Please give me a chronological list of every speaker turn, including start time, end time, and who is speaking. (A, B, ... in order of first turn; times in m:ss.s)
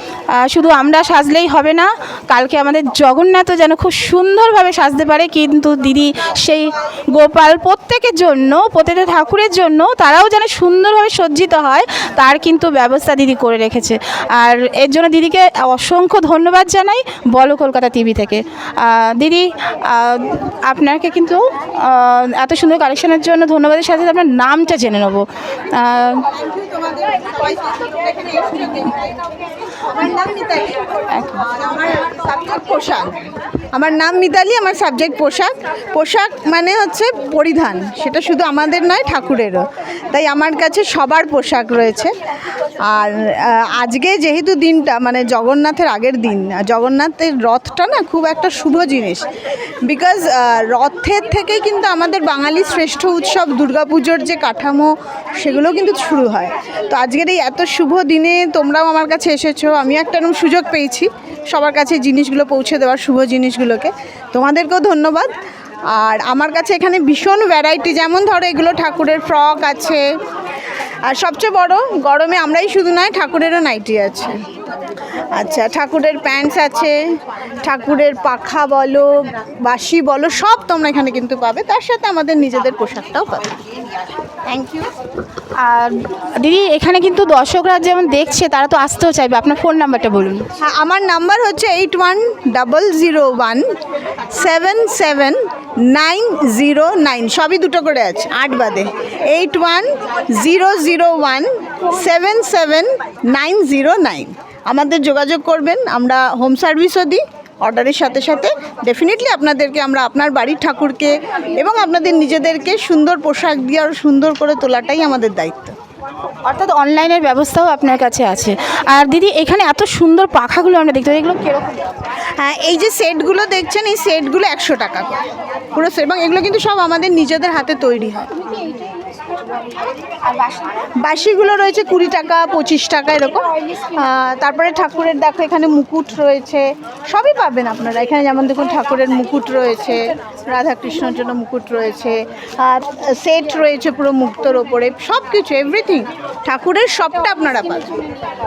0:00.3-0:26.3 A
0:26.3-0:42.1 B
0:31.1-0:31.4 A
0:42.8-0:49.3 B
0:49.8-1:05.3 B
1:05.9-1:10.0 B
1:11.0-1:14.4 B
1:15.3-1:17.0 B
1:17.6-1:23.6 B
1:24.4-1:24.9 B
1:25.6-1:30.5 A
1:30.6-1:33.6 B
1:34.3-1:55.8 B
1:56.4-2:01.9 A
2:02.4-2:05.1 B
2:05.7-2:08.4 B
2:10.6-2:28.1 B